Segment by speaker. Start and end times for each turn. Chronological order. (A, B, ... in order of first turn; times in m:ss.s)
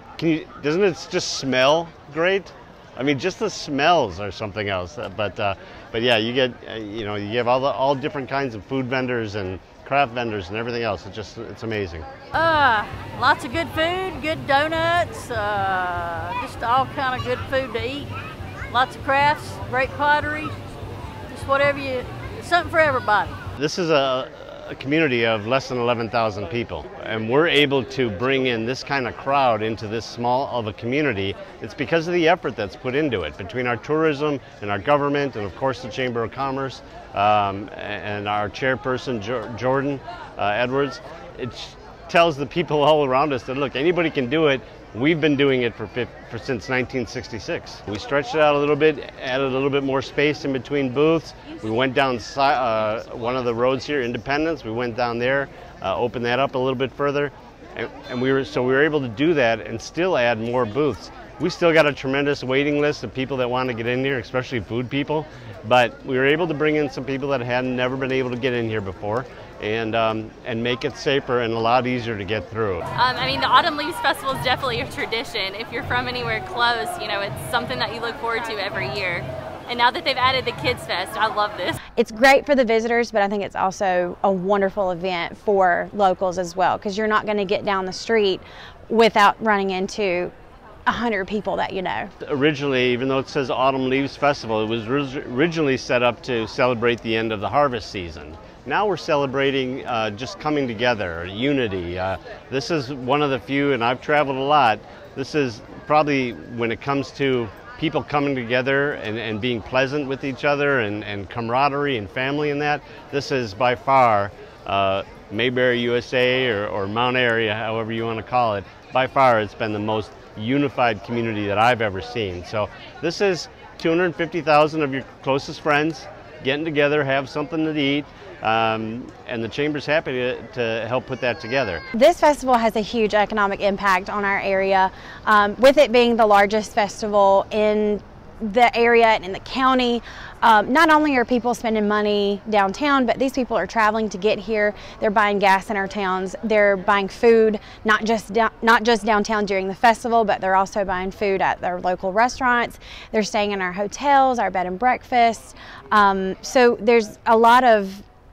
0:00.2-0:12.0 A
0:12.3-0:18.1 B
0:18.7-0:20.5 B
0:21.3-0:23.4 B
0:23.6-1:12.8 A
1:12.9-1:21.8 C
1:22.0-1:30.3 D
1:30.9-1:32.1 D
1:32.2-2:11.8 A
2:11.9-2:38.0 D